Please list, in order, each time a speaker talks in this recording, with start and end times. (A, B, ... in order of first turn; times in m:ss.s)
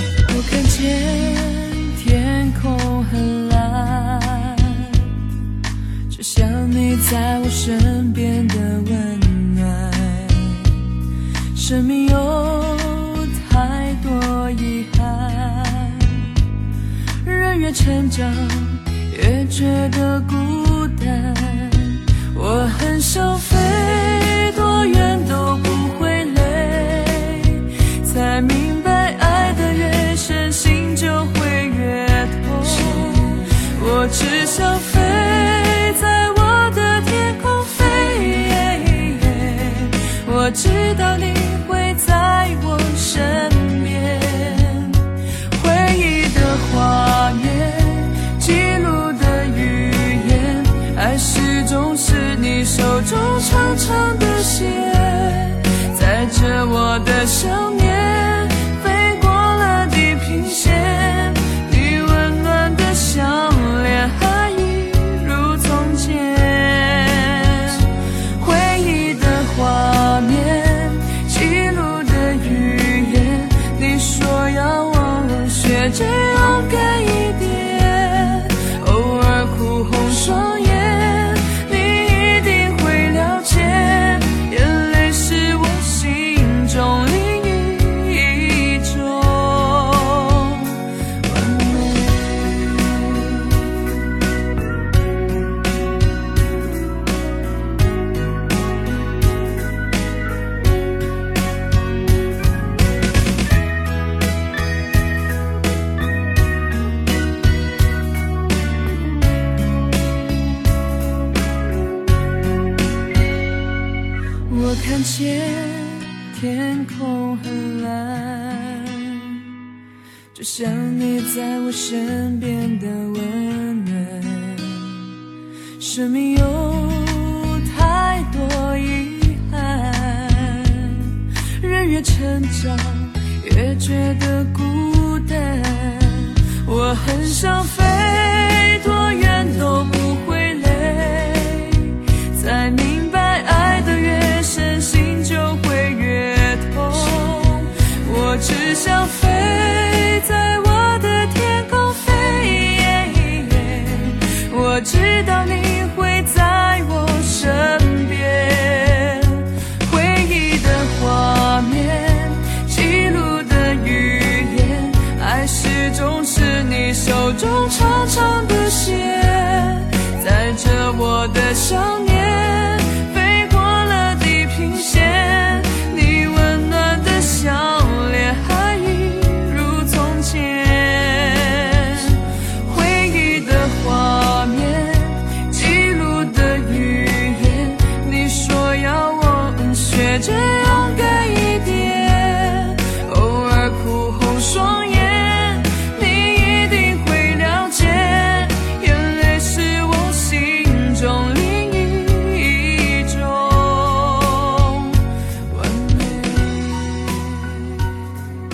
0:00.3-0:05.1 A
0:06.1-0:11.0 A
0:11.5-0:16.4 A
0:17.2-1:33.8 A
1:54.5-1:59.6 A
2:00.3-2:05.2 A
2:05.8-3:27.1 A